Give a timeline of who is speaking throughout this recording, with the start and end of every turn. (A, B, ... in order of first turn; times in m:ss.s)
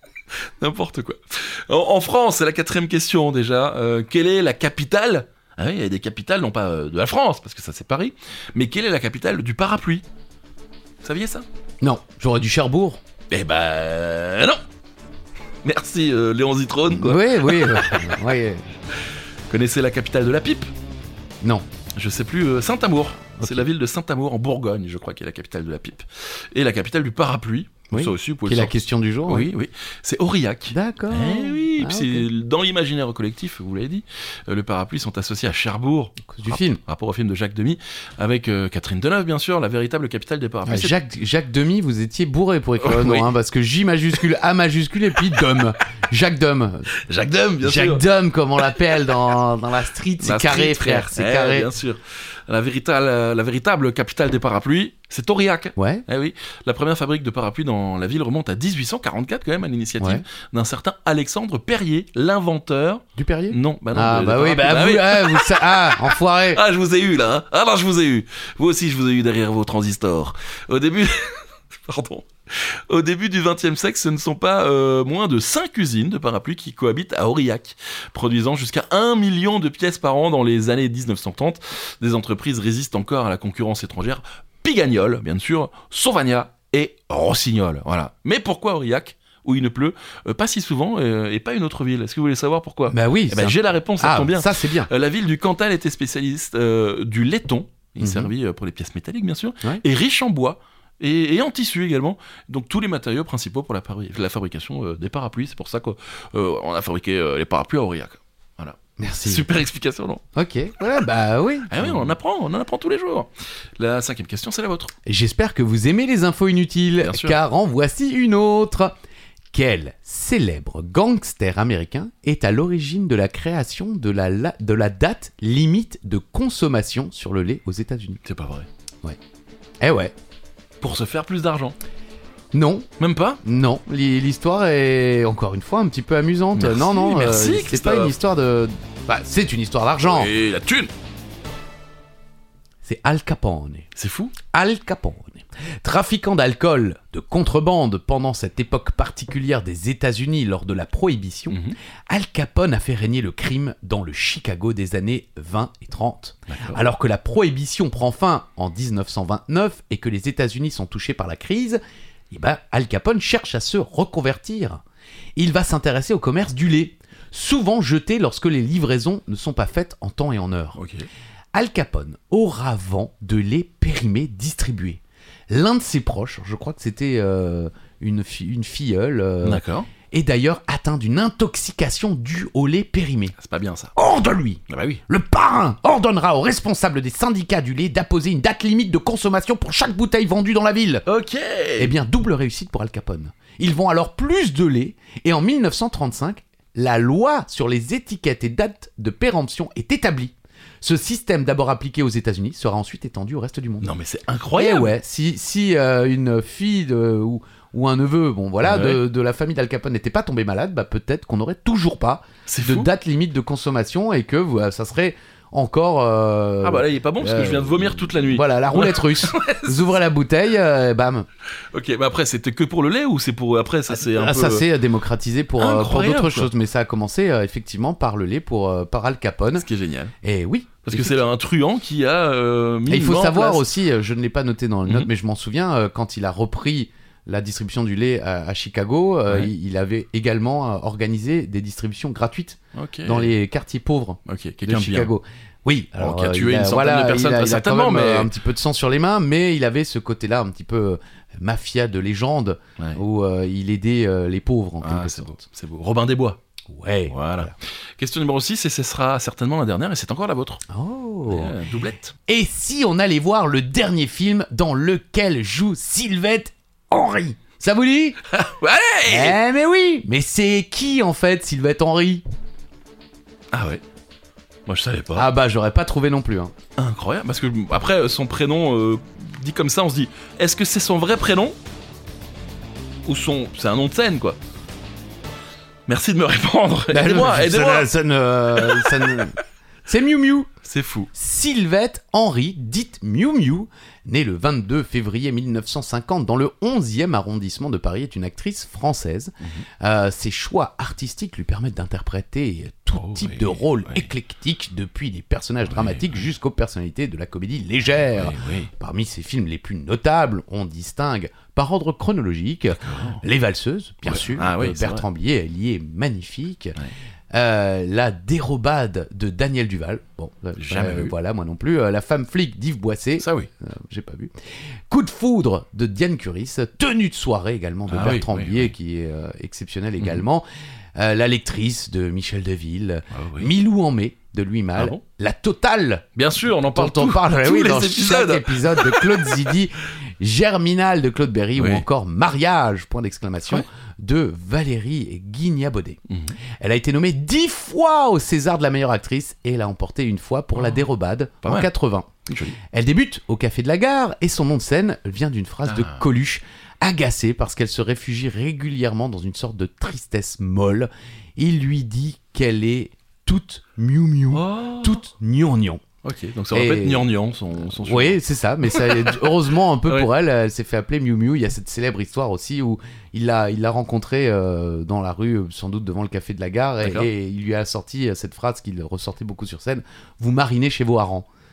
0:00.3-0:10.0 A
0:11.0-0:11.4 A
0:11.8-0:13.0 B
0:13.3-0:14.6 A
0:15.6-0:18.0 A
0:16.9-0:18.6 B
0:19.5-0:20.7 A
0:22.0-0:28.7 A
0:23.4-0:23.6 B
0:27.9-0:29.5 B
0:29.3-0:40.9 A
0:30.7-0:32.3 B
0:36.2-0:36.8 B
0:40.6-0:46.9 B
0:42.8-0:43.3 A
0:46.9-0:48.0 A
0:47.6-0:51.7 B
0:50.2-1:50.2 A
0:55.8-0:56.0 B
1:00.0-1:00.2 B
1:03.2-1:06.6 B
1:32.9-1:34.9 B
1:38.0-1:38.3 B
1:49.0-1:49.5 B
1:50.3-1:52.1 B
1:51.7-1:54.9 A
1:55.0-1:58.9 B
1:57.0-1:57.4 A
1:59.5-2:08.2 B
2:08.2-2:08.7 A
2:09.8-2:10.1 B
2:10.8-2:11.8 A
2:12.5-2:12.9 B
2:13.0-2:13.4 A
2:13.4-2:20.3 B
2:16.5-2:18.1 A
2:20.0-2:20.9 A
2:22.8-2:23.9 B
2:23.9-2:24.3 A
2:24.5-2:41.8 B
2:31.5-2:31.8 A
2:36.5-2:36.8 A
2:42.3-2:44.8 B
2:45.4-2:50.8 B
2:50.8-2:51.1 A
2:51.5-3:03.3 B
2:59.4-2:59.9 A
3:03.4-3:03.9 A
3:04.0-3:11.0 B
3:04.7-3:05.0 A
3:11.0-3:11.9 A
3:11.8-3:23.9 B
3:23.8-3:24.9 A
3:24.5-3:41.2 B
3:28.6-3:29.0 A
3:32.5-3:32.9 A
3:36.6-3:39.9 A
3:41.7-3:44.7 A
3:43.9-3:49.6 B
3:45.6-3:46.5 A
3:49.5-3:50.1 A
3:50.2-3:51.2 B
3:50.8-3:53.7 A
3:52.9-4:15.4 B
4:02.7-4:03.4 A
4:04.2-4:05.1 A
4:06.0-4:08.3 A
4:14.8-4:16.4 A
4:16.7-4:17.5 B
4:17.1-4:20.6 A
4:20.7-4:21.5 B
4:21.3-4:22.1 A
4:22.3-4:28.2 B
4:28.3-4:29.4 A
4:29.0-4:32.2 B
4:33.5-4:33.8 A
4:34.7-4:35.3 A
4:35.1-4:36.5 B
4:36.8-4:41.6 A
4:43.0-4:44.4 A
4:45.9-4:47.9 A
4:46.9-4:50.5 B
4:48.5-4:49.2 A
4:50.6-4:51.1 A
4:51.1-5:16.8 B
5:02.9-5:04.1 A
5:05.7-5:06.2 A
5:08.1-5:08.7 A
5:12.8-5:13.2 A
5:14.0-5:15.0 A
5:17.3-5:24.3 B
5:20.6-5:21.1 A
5:23.2-5:23.5 A
5:24.9-5:30.4 B
5:27.9-5:28.7 A
5:30.0-5:30.2 A
5:31.0-5:36.0 B
5:33.1-5:33.5 A
5:36.2-5:39.5 A
5:36.7-5:46.0 B
5:41.6-5:41.8 A
5:46.1-5:46.3 A
5:46.6-5:52.1 B
5:50.6-5:50.8 A
5:51.4-5:51.7 A
5:52.3-5:52.6 A
5:52.6-6:05.8 B
5:55.6-5:56.0 A
6:04.3-6:05.0 A
6:06.0-6:09.3 A
6:06.5-6:07.1 B
6:07.8-6:21.2 B
6:16.8-6:17.1 A